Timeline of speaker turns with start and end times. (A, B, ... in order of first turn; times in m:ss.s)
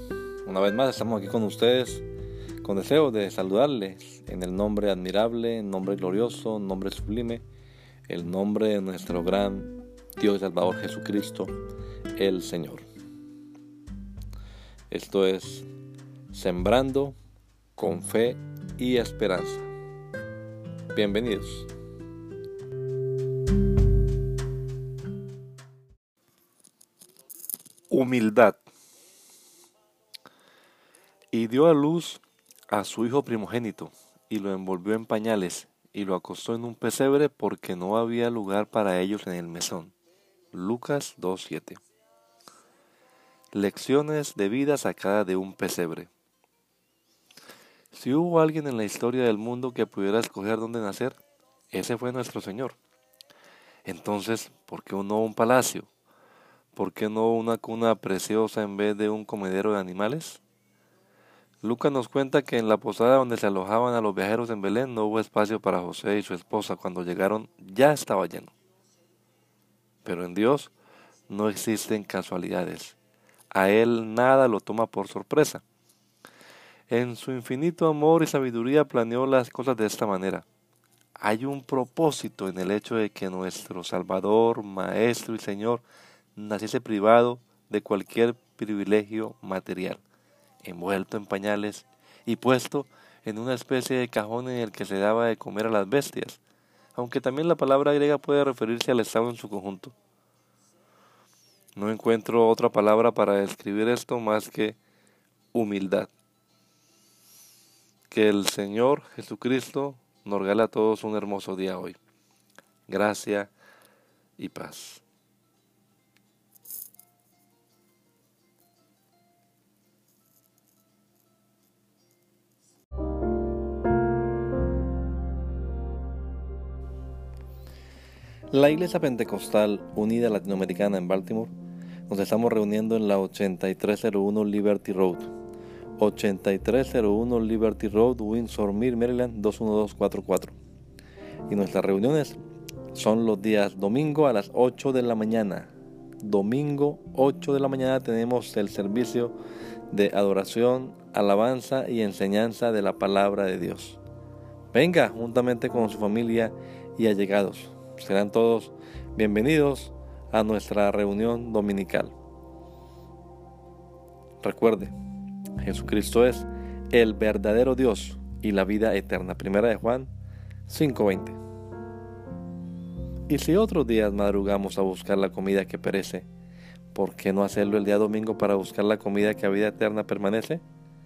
0:00.4-0:02.0 A
0:02.6-0:07.4 A
0:08.1-0:11.5 A
0:12.2-0:12.8 A
0:14.9-0:15.7 A
0:16.3-0:17.2 A
0:17.8-0:19.7 A
0:20.9-0:21.7 A
0:27.9-0:28.6 A
0:31.3-0:39.9 A
0:40.5-0:41.8 A
0:43.5-0:46.1 A
0:47.9-0:51.2 A
0:51.7-0:52.8 A
0:53.8-0:55.9 A
0:56.7-1:00.4 A
1:01.6-1:08.5 A
1:10.0-1:10.7 A
1:11.3-1:13.0 A
1:13.5-1:15.6 A
1:16.9-1:20.5 A
1:21.2-1:25.8 A
1:26.4-1:30.0 A
1:30.6-1:36.4 A
1:36.9-1:39.9 A
1:41.8-1:44.8 A
1:45.5-1:46.1 A
1:48.1-1:52.0 A
1:52.9-1:53.5 A
1:54.4-1:55.0 A
2:08.5-2:11.5 A
2:12.1-2:15.3 A
2:16.0-2:20.5 A
2:21.5-2:22.4 A
2:22.9-2:29.3 A
2:29.9-2:34.0 A
2:34.7-2:42.1 A
2:44.4-2:44.9 A
2:45.6-2:50.1 A
2:50.7-2:51.4 A
2:53.3-2:56.3 A
2:56.9-3:00.6 A